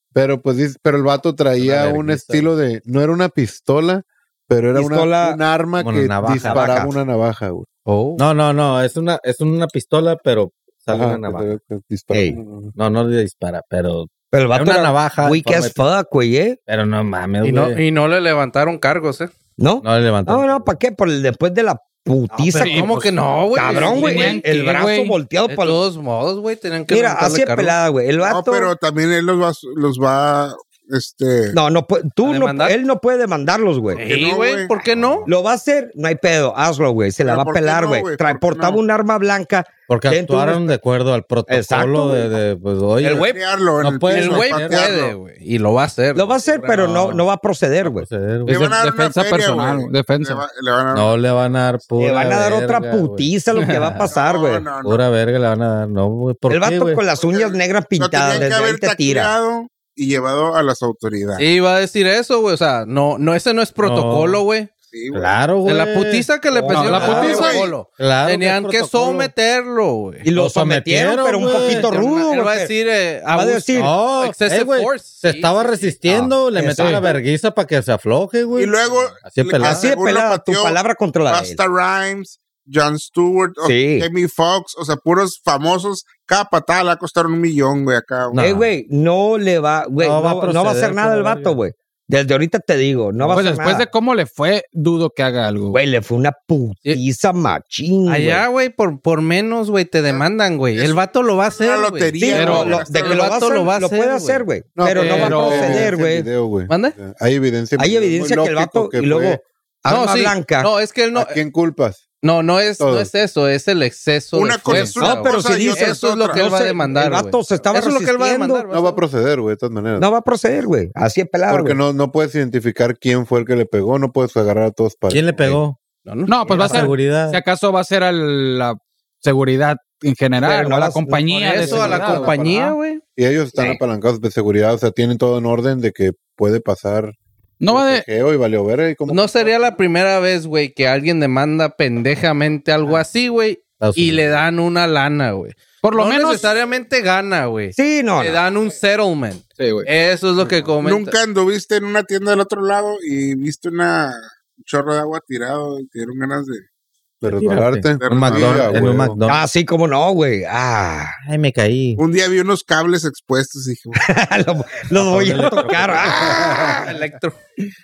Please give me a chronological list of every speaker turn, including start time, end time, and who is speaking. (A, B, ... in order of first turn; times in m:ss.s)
0:00.2-0:07.7 A
0:01.6-0:02.5 B
0:04.7-0:05.4 C
0:05.8-0:06.9 B
0:06.4-0:07.0 C
0:07.9-0:08.2 D
0:08.2-0:11.6 B
0:10.9-0:12.7 A
0:12.1-0:12.4 C
0:12.8-0:15.8 B
0:14.3-0:16.6 C
0:16.7-0:17.8 B
0:17.4-0:19.3 D
0:19.6-0:23.0 C
0:19.8-0:20.8 B
0:22.3-0:24.4 D
0:22.6-0:25.2 E
0:23.6-0:25.8 C
0:25.5-0:27.8 D
0:26.9-0:28.7 C
0:28.2-0:31.6 F
0:31.5-0:34.0 C
0:32.2-0:32.8 D
0:33.9-0:34.8 F
0:34.0-0:35.3 D
0:35.3-0:40.7 C
0:37.2-0:38.8 F
0:39.9-0:44.9 B
0:41.5-0:42.3 C
0:43.0-0:43.4 C
0:43.0-0:45.2 F
0:44.1-0:47.2 D
0:46.2-0:48.1 C
0:47.8-0:48.6 B
0:48.5-0:50.4 E
0:48.5-0:51.1 F
0:50.9-0:53.3 B
0:52.0-0:54.7 C
0:53.6-0:54.0 D
0:54.0-0:55.0 F
0:54.8-0:57.0 B
0:56.5-0:59.3 C
0:57.1-1:01.4 F
1:01.4-1:04.7 D
1:03.8-1:04.4 B
1:04.9-1:05.3 F
1:05.1-1:06.3 B
1:05.6-1:10.3 D
1:06.5-1:07.5 C
1:06.7-1:07.6 E
1:06.9-1:09.3 B
1:06.9-1:07.7 F
1:10.2-1:12.7 C
1:10.3-1:11.9 B
1:11.5-1:16.3 D
1:13.3-1:13.9 C
1:13.8-1:19.9 B
1:16.6-1:17.1 C
1:16.8-1:17.1 E
1:18.6-1:28.4 F
1:19.6-1:21.6 C
1:23.6-1:24.1 C
1:28.3-1:28.7 B
1:28.4-1:33.9 C
1:30.0-1:31.6 B
1:33.2-1:35.8 E
1:35.7-1:38.4 C
1:38.1-1:44.4 D
1:40.1-1:43.6 F
1:42.2-1:46.3 C
1:42.4-1:42.8 E
1:44.8-1:49.4 A
1:44.9-1:45.9 E
1:46.7-1:47.0 D
1:47.8-1:50.7 C
1:49.9-1:51.4 D
1:51.1-1:52.0 A
1:52.2-1:59.0 D
1:52.8-1:53.1 A
1:54.3-1:56.5 F
1:54.7-1:54.9 E
1:55.0-1:58.7 C
1:58.7-2:00.1 A
2:00.0-2:01.8 C
2:01.5-2:05.6 A
2:05.1-2:05.8 B
2:06.0-2:06.9 D
2:06.3-2:12.8 E
2:06.6-2:07.4 B
2:10.4-2:12.5 C
2:11.3-2:13.0 D
2:13.2-2:17.2 A
2:13.6-2:13.8 C
2:17.6-2:18.0 E
2:17.7-2:19.7 A
2:19.1-2:31.1 D
2:23.8-2:24.4 B
2:25.8-2:26.5 E
2:27.7-2:28.4 C
2:29.6-2:29.9 E
2:30.8-2:36.6 F
2:37.2-2:39.2 A
2:37.2-2:39.4 B
2:38.0-2:38.9 F
2:39.3-2:41.2 C
2:41.2-2:42.0 B
2:42.0-2:44.0 F
2:44.0-2:46.9 C
2:44.9-2:46.1 B
2:46.1-2:46.8 A
2:46.4-2:47.4 D